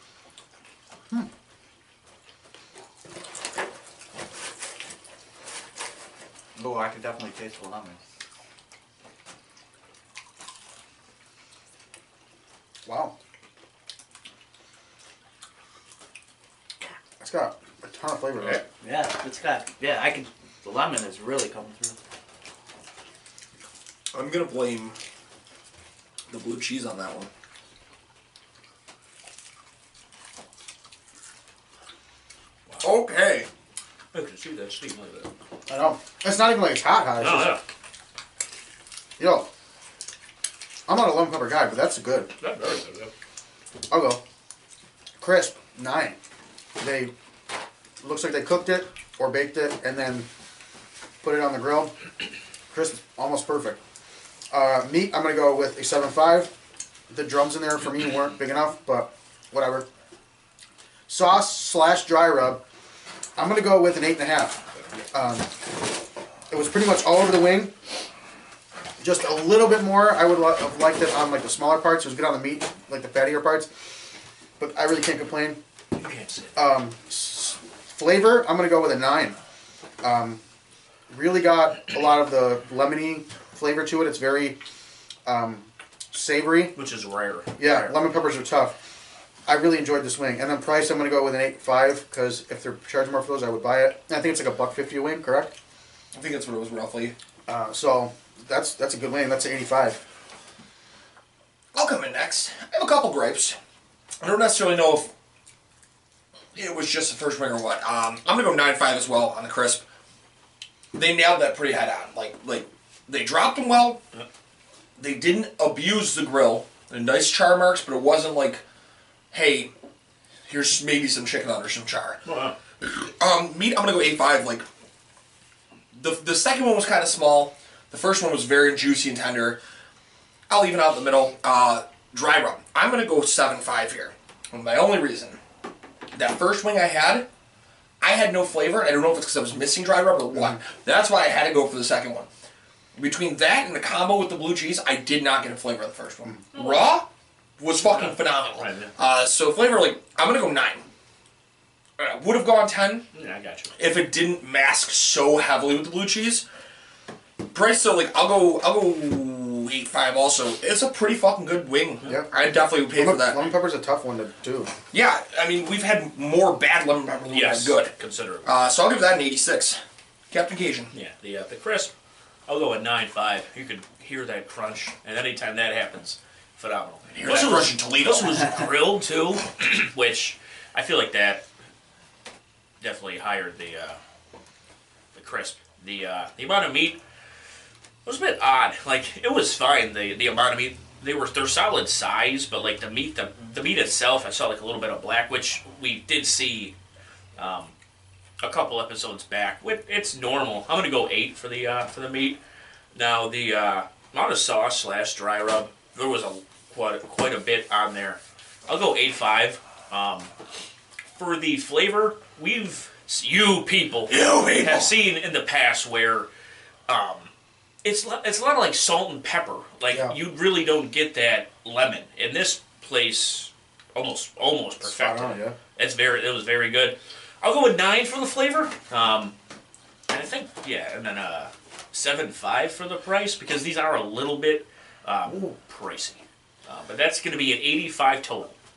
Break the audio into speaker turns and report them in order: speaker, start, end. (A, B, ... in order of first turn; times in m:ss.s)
0:06.6-0:08.0 A
0:12.8-0:13.2 B
0:17.2-0:18.6 B
0:18.8-0:22.0 A
0:24.1-0:25.0 C
0:26.3-0:27.3 C
0:32.8-0:33.5 C
0:34.1-0:35.3 D
0:35.7-0:37.6 B
0:37.2-0:37.6 D
0:39.2-0:39.5 B
0:40.9-0:42.3 B
0:42.4-0:43.1 D
0:43.9-0:44.2 B
0:45.2-0:46.2 B
0:46.8-0:47.1 B
0:48.0-0:50.3 B
0:51.2-0:51.9 B
0:52.7-0:53.8 B
0:54.5-0:56.5 B
0:57.1-0:59.9 B
1:01.1-1:02.6 B
1:03.4-1:04.6 B
1:05.1-1:05.5 B
1:06.5-1:07.7 B
1:09.0-1:13.7 B
1:14.6-1:15.6 B
1:16.0-1:16.6 D
1:16.6-1:19.4 B
1:20.0-1:20.4 B
1:21.1-1:24.6 B
1:25.3-1:26.8 B
1:26.8-1:28.0 D
1:27.6-1:28.8 B
1:29.5-1:35.5 B
1:36.1-1:37.1 C
1:37.5-1:40.0 B
1:41.7-1:43.6 C
1:44.2-1:45.1 C
1:46.6-1:49.8 C
1:50.9-1:54.0 C
1:55.0-1:58.6 C
1:59.3-1:59.7 C
2:00.5-2:02.2 C
2:02.2-2:02.6 D
2:02.8-2:04.6 C
2:05.9-2:09.6 C
2:10.5-2:15.4 C
2:16.1-2:17.3 C
2:18.0-2:22.3 C
2:23.0-2:27.1 C
2:26.6-2:26.9 D
2:27.6-2:30.8 C
2:27.8-2:28.9 D
2:32.0-2:33.0 C
2:33.1-2:33.7 D
2:33.8-2:36.4 C
2:37.4-2:43.4 C
2:42.1-2:44.7 B
2:44.9-2:47.9 C
2:47.2-2:48.5 D
2:48.4-2:49.8 C
2:50.3-2:50.9 C
2:50.9-2:51.9 D
2:52.5-3:01.4 D
2:57.1-2:58.7 C
3:02.8-3:04.0 D
3:05.1-3:07.0 D
3:08.0-3:16.8 D
3:17.4-3:17.7 D
3:18.4-3:22.4 D
3:22.9-3:30.3 D
3:31.2-3:36.3 D
3:34.1-3:34.9 C
3:36.9-3:37.3 D
3:37.8-3:49.4 D
3:39.9-3:40.2 B
3:44.8-3:45.6 B
3:50.1-3:58.6 D